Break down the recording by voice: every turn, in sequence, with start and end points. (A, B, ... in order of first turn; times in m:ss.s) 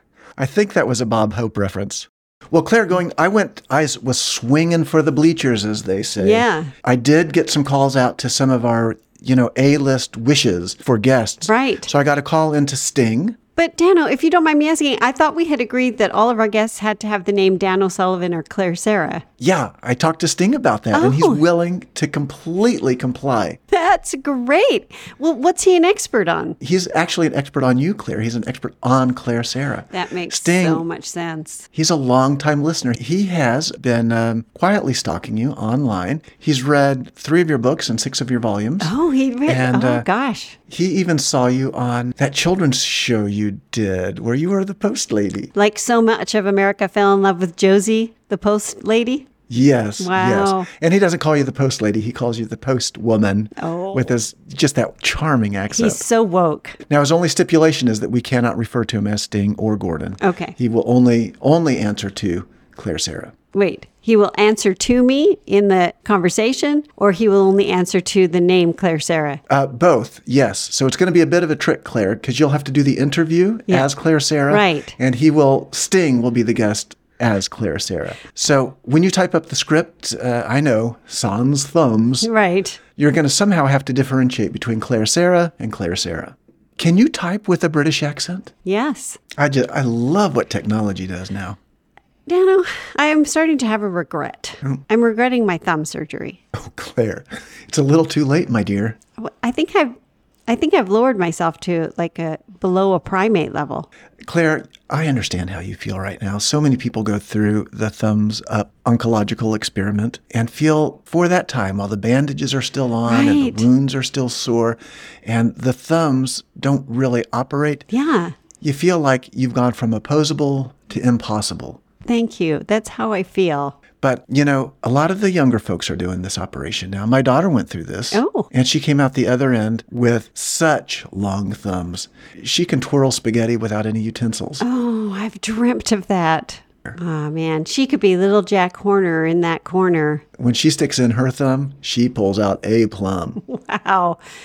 0:00.4-0:13.4 A
0:06.2-0:06.7 B
0:11.4-0:11.9 B
0:13.6-0:19.2 B
0:19.4-0:23.6 A
0:20.9-0:21.4 B
0:23.7-0:26.6 B
0:26.6-0:30.8 A
0:29.9-0:31.7 B
0:31.7-0:38.9 A
0:38.8-0:40.6 B
0:39.5-0:40.0 A
0:40.7-0:45.5 A
0:45.5-0:49.3 B
0:49.5-0:56.0 A
0:50.0-0:50.7 B
0:53.6-0:54.1 B
0:55.7-0:56.8 B
0:56.9-1:03.3 A
1:00.2-1:00.6 B
1:03.5-1:09.4 B
1:09.5-1:22.3 A
1:14.5-1:15.0 B
1:22.2-1:22.8 B
1:23.0-1:28.5 A
1:28.6-1:29.2 B
1:29.4-1:31.6 A
1:32.2-1:36.4 B
1:36.5-1:39.0 A
1:39.2-1:39.9 B
1:40.5-1:43.9 B
1:44.2-1:57.8 A
1:53.0-1:53.7 B
1:57.9-1:58.3 B
1:58.6-2:01.8 A
2:02.0-2:03.8 B
2:04.0-2:14.6 A
2:08.1-2:08.5 B
2:14.6-2:20.2 B
2:20.4-2:23.4 A
2:23.4-2:24.2 B